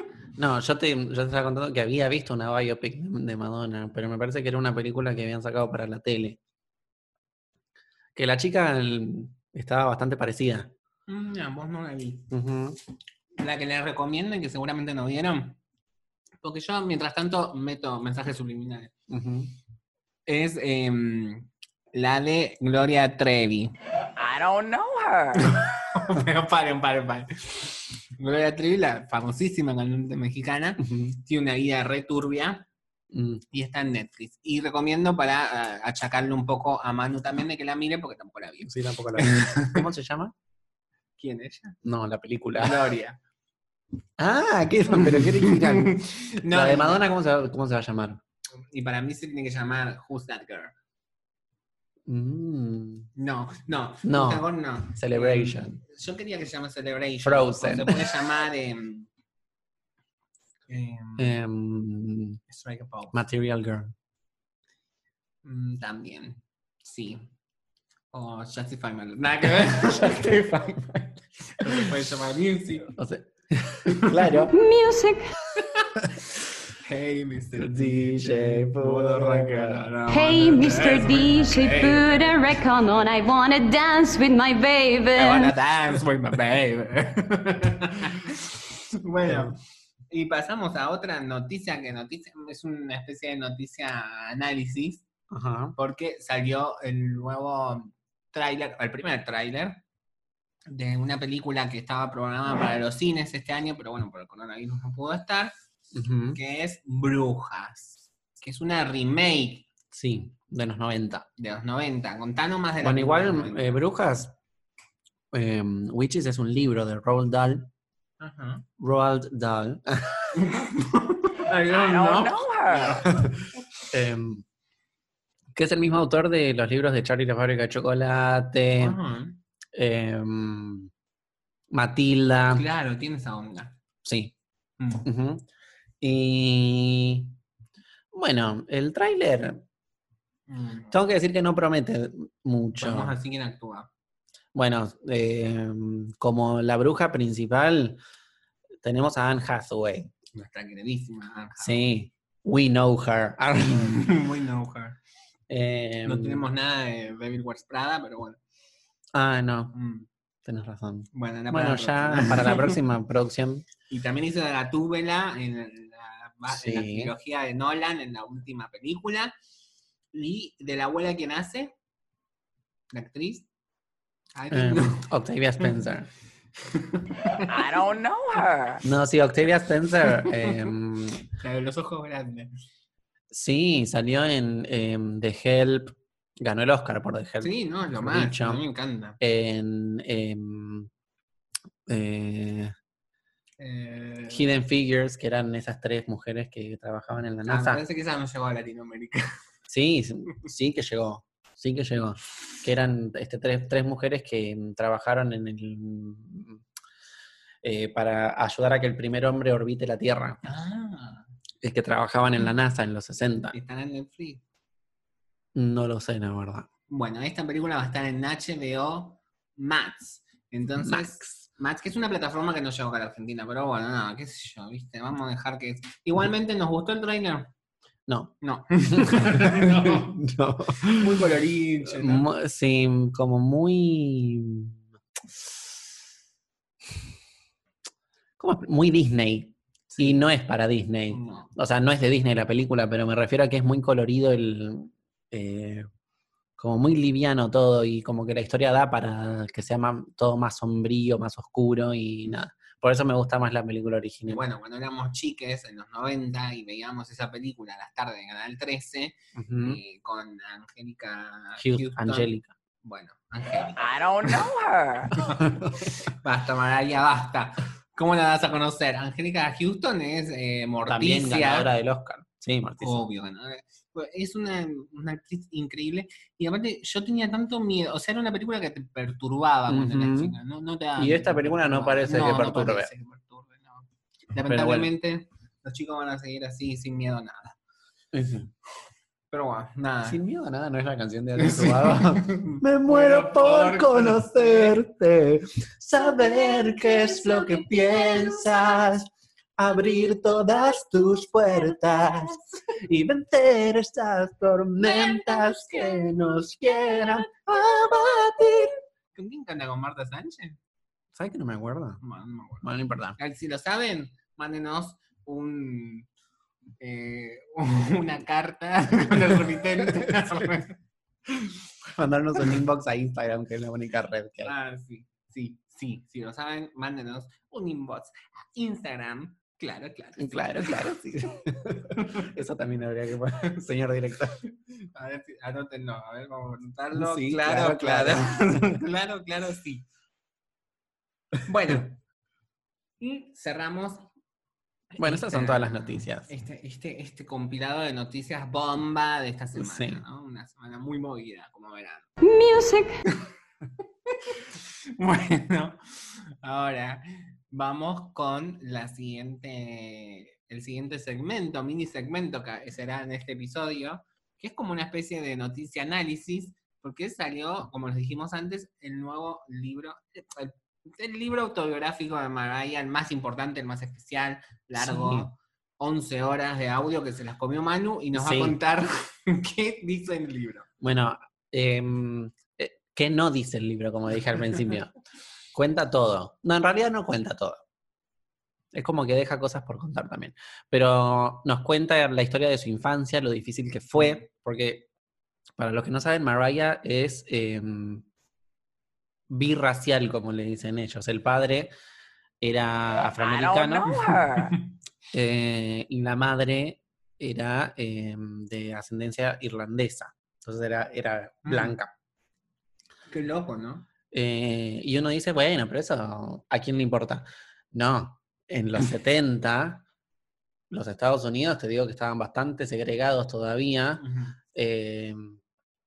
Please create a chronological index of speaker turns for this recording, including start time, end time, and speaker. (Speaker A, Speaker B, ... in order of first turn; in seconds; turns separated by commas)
Speaker A: 0.4-6.4, Speaker A: 8.2-10.7, Speaker B: 11.1-12.3, Speaker A: 12.3-12.8, Speaker B: 13.4-15.6, Speaker B: 16.4-18.9, Speaker A: 19.1-19.5, Speaker B: 20.3-23.7, Speaker C: 24.2-25.6, Speaker B: 25.5-32.7, Speaker A: 30.8-31.2, Speaker A: 33.1-33.4, Speaker B: 33.5-39.8, Speaker A: 38.6-40.3, Speaker B: 41.2-41.8, Speaker A: 41.8-42.8, Speaker B: 42.6-43.2, Speaker A: 44.2-48.2, Speaker B: 45.0-47.0, Speaker B: 48.7-50.7, Speaker A: 52.1-53.1, Speaker B: 53.2-59.1, Speaker A: 54.0-55.8, Speaker A: 57.2-58.1, Speaker B: 60.7-61.4, Speaker A: 61.2-62.4, Speaker B: 62.5-63.2, Speaker A: 63.1-63.9, Speaker B: 65.4-67.2, Speaker B: 68.1-70.5, Speaker A: 69.9-71.9, Speaker B: 71.5-72.9, Speaker A: 72.9-74.6, Speaker B: 73.9-74.5, Speaker D: 74.5-75.3, Speaker B: 75.6-75.9, Speaker B: 76.8-82.4, Speaker A: 77.6-79.9, Speaker D: 80.1-85.5, Speaker B: 85.1-89.6, Speaker A: 89.3-89.6, Speaker B: 90.1-95.0, Speaker A: 95.3-95.8, Speaker B: 95.8-99.8, Speaker B: 100.7-105.5, Speaker A: 105.9-106.4, Speaker B: 106.3-109.7, Speaker A: 109.9-111.3, Speaker B: 111.4-113.8, Speaker A: 112.8-114.3, Speaker A: 115.3-117.7, Speaker B: 118.2-118.7, Speaker A: 118.8-120.4, Speaker B: 120.3-123.2, Speaker C: 121.7-123.1, Speaker A: 123.9-124.4, Speaker A: 125.5-129.0, Speaker B: 128.8-129.4, Speaker A: 129.8-130.9, Speaker A: 131.7-132.6, Speaker B: 132.5-133.8, Speaker A: 134.1-134.3, Speaker B: 134.8-135.1, Speaker A: 135.0-135.4, Speaker A: 136.0-137.4, Speaker A: 138.1-139.6, Speaker B: 140.5-141.0, Speaker A: 140.9-143.2, Speaker B: 142.8-143.9, Speaker A: 144.6-148.0, Speaker A: 148.8-150.1, Speaker B: 150.3-151.9, Speaker A: 151.6-154.1, Speaker B: 153.7-155.0, Speaker A: 155.5-156.4, Speaker B: 156.1-158.4, Speaker A: 159.1-159.8, Speaker B: 159.7-160.1, Speaker A: 160.4-163.7, Speaker B: 161.1-162.8, Speaker B: 163.9-169.3, Speaker A: 166.5-167.1, Speaker B: 170.1-171.7, Speaker B: 172.9-173.5, Speaker B: 174.3-175.1, Speaker A: 174.5-176.1, Speaker B: 176.7-177.5, Speaker C: 177.4-178.8, Speaker A: 178.8-181.2, Speaker B: 180.3-180.7, Speaker B: 181.4-182.5, Speaker A: 183.3-188.6, Speaker B: 187.4-189.2, Speaker A: 189.2-190.9, Speaker A: 191.9-192.7, Speaker B: 193.6-194.6, Speaker A: 194.3-197.8, Speaker B: 197.5-199.4, Speaker A: 199.7-206.6, Speaker A: 207.6-210.4, Speaker B: 210.4-211.3, Speaker A: 211.6-213.6, Speaker B: 213.5-214.4, Speaker A: 215.6-216.7, Speaker B: 216.9-227.5, Speaker A: 220.8-221.4, Speaker A: 228.1-231.2, Speaker B: 228.4-230.2, Speaker B: 230.8-232.3, Speaker A: 231.9-234.8, Speaker A: 235.3-235.7, Speaker A: 238.4-245.9, Speaker B: 239.9-240.3, Speaker B: 241.1-241.5, Speaker A: 246.6-254.4, Speaker B: 254.3-262.3, Speaker A: 259.4-259.8, Speaker A: 261.6-262.5, Speaker B: 262.8-263.8, Speaker C: 263.8-265.2, Speaker B: 265.3-271.7, Speaker A: 270.9-273.1, Speaker B: 272.8-287.6, Speaker A: 279.7-280.4, Speaker A: 281.0-282.9, Speaker A: 284.5-284.9, Speaker A: 288.1-288.5, Speaker B: 289.3-290.2, Speaker A: 290.1-308.8, Speaker B: 291.4-294.8, Speaker B: 296.5-298.4, Speaker B: 304.8-306.1, Speaker B: 309.1-310.6, Speaker A: 311.1-312.0, Speaker B: 312.0-316.1, Speaker A: 312.6-313.2, Speaker B: 316.8-320.8, Speaker A: 321.8-324.5, Speaker B: 324.4-330.9, Speaker A: 330.2-334.4, Speaker B: 332.0-332.3, Speaker B: 334.9-339.9, Speaker A: 336.9-338.8, Speaker B: 341.4-342.0, Speaker B: 343.0-344.1, Speaker B: 344.9-352.1, Speaker A: 345.0-346.3, Speaker A: 349.6-350.0, Speaker D: 352.2-353.0, Speaker B: 354.1-354.4, Speaker B: 355.0-355.8, Speaker B: 356.4-380.7, Speaker A: 374.8-375.3, Speaker A: 378.1-378.6, Speaker A: 380.8-384.9, Speaker A: 385.5-387.6, Speaker A: 388.7-394.9, Speaker A: 395.6-398.1, Speaker A: 399.3-401.7, Speaker A: 402.4-404.0, Speaker C: 403.1-404.5, Speaker A: 405.1-411.9, Speaker B: 411.4-411.8, Speaker B: 413.1-413.9, Speaker A: 414.1-419.8, Speaker A: 420.7-425.4, Speaker B: 424.0-424.4